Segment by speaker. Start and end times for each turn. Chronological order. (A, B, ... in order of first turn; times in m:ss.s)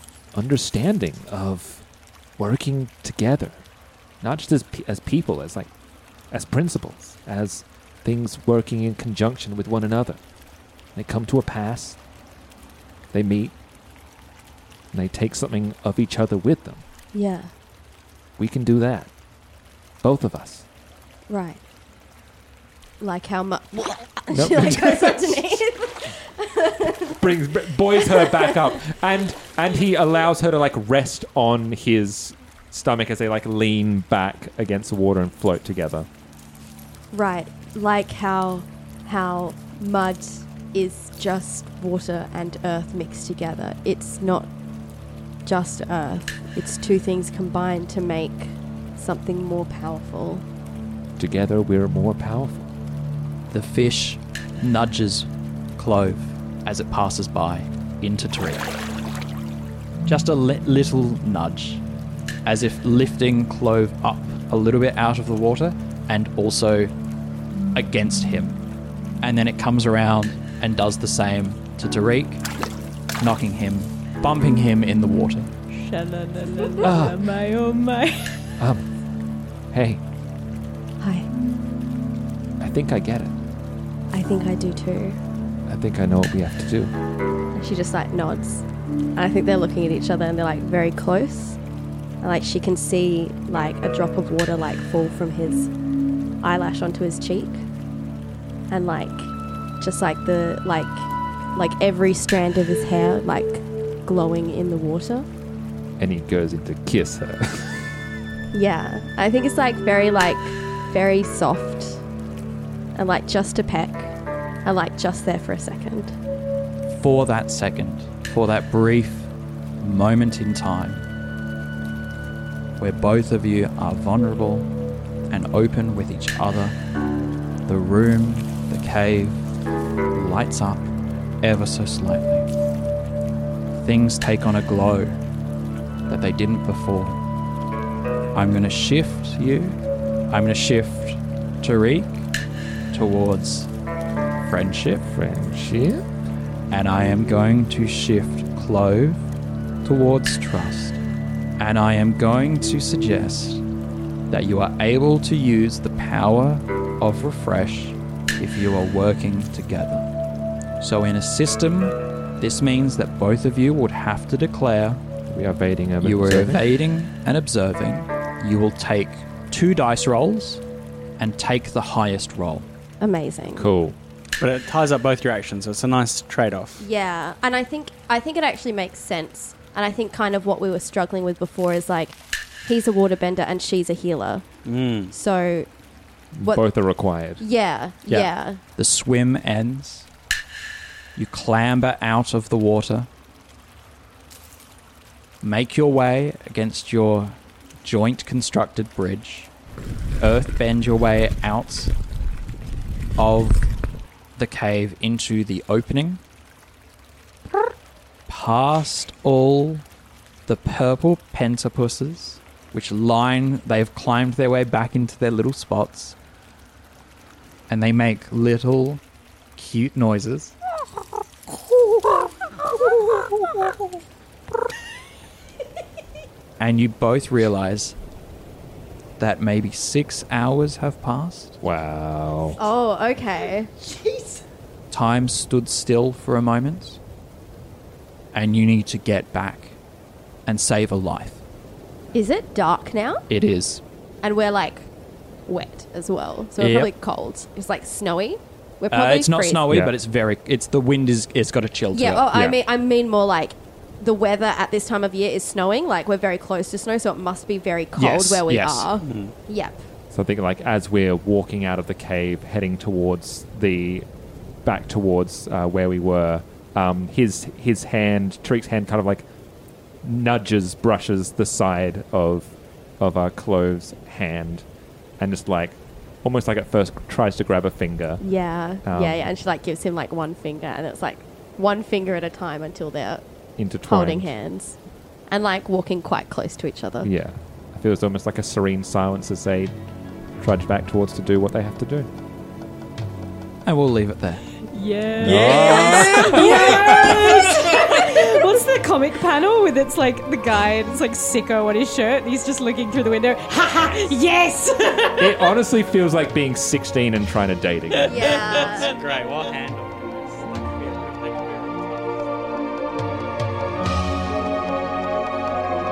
0:00.3-0:01.8 A
0:02.4-0:03.6 A
0:04.2-0:05.7 A
0:06.3-0:10.2 A
0:10.9-0:12.0 A
0:13.1-0:13.5 A
0:14.9-0:16.8 A
0:17.1-0:17.5 B
0:18.4-0:19.1 A
0:20.0-0:20.6 A
0:21.3-0:21.6 B
0:23.0-0:27.2 B
0:24.3-0:25.6 A
0:27.1-0:36.1 A
0:28.0-0:28.7 B
0:37.1-0:44.5 B
0:45.4-0:50.4 B
0:51.2-0:52.7 A
0:53.5-0:58.7 C
1:00.0-1:01.8 C
1:02.4-1:06.9 C
1:07.7-1:08.6 C
1:09.2-1:12.5 C
1:13.2-1:15.5 C
1:15.7-1:18.5 D
1:16.8-1:17.2 A
1:18.6-1:18.8 A
1:19.7-1:20.0 A
1:21.0-1:21.3 B
1:22.6-1:23.3 A
1:24.1-1:25.2 B
1:25.7-1:26.9 A
1:27.5-1:28.6 B
1:29.2-1:31.6 B
1:32.2-1:35.7 B
1:36.4-1:37.6 B
1:38.7-1:45.3 B
1:46.0-1:47.9 A
1:48.5-1:52.0 B
1:52.9-1:54.1 B
1:54.6-1:56.1 B
1:56.9-2:01.0 C
2:02.8-2:04.7 C
2:05.3-2:06.8 C
2:07.6-2:09.4 C
2:10.1-2:12.5 C
2:13.7-2:15.2 C
2:16.1-2:17.2 C
2:18.3-2:19.8 C
2:20.3-2:22.3 C
2:22.9-2:23.7 C
2:24.4-2:25.1 C
2:25.1-2:26.0 A
2:26.7-2:29.2 C
2:29.8-2:31.0 C
2:31.6-2:33.6 C
2:34.3-2:40.1 C
2:40.8-2:45.0 C
2:45.3-2:46.6 A
2:46.0-2:50.6 C
2:51.2-2:52.7 C
2:53.0-2:53.6 B
2:53.5-2:54.0 A
2:54.4-2:56.8 E
2:56.8-3:04.4 B
3:04.6-3:05.1 E
3:05.1-3:05.7 B
3:06.3-3:07.4 A
3:07.4-3:08.6 B
3:08.1-3:10.1 C
3:11.2-3:13.1 C
3:15.4-3:19.5 C
3:20.2-3:21.9 C
3:23.2-3:23.6 C
3:24.4-3:26.2 C
3:28.3-3:29.8 C
3:30.4-3:36.2 C
3:37.7-3:39.0 C
3:39.6-3:40.5 C
3:46.6-3:48.0 C
3:49.2-3:51.6 C
3:51.6-3:52.6 A
3:52.6-3:53.7 B
3:54.9-3:57.0 C
3:58.3-3:59.8 C
4:00.4-4:01.4 C
4:02.1-4:03.2 B
4:03.3-4:03.8 C
4:04.2-4:04.9 B
4:05.5-4:09.6 B
4:06.6-4:06.9 C
4:08.9-4:12.2 C
4:11.9-4:19.8 B
4:12.3-4:12.6 A
4:18.0-4:18.9 C
4:19.0-4:19.3 E
4:20.1-4:24.0 A
4:24.6-4:29.2 A
4:30.0-4:34.6 A
4:35.2-4:38.2 A
4:38.2-4:43.2 B
4:38.8-4:39.3 A
4:43.6-4:44.3 A
4:43.9-4:44.8 B
4:45.3-4:47.1 B
4:47.0-4:49.7 A
4:50.4-4:52.1 A
4:53.6-4:54.4 C
4:54.7-5:05.5 D
4:55.2-4:57.4 A
4:55.2-4:57.4 E
5:05.2-5:08.7 A
5:08.0-5:08.9 B
5:08.2-5:12.4 E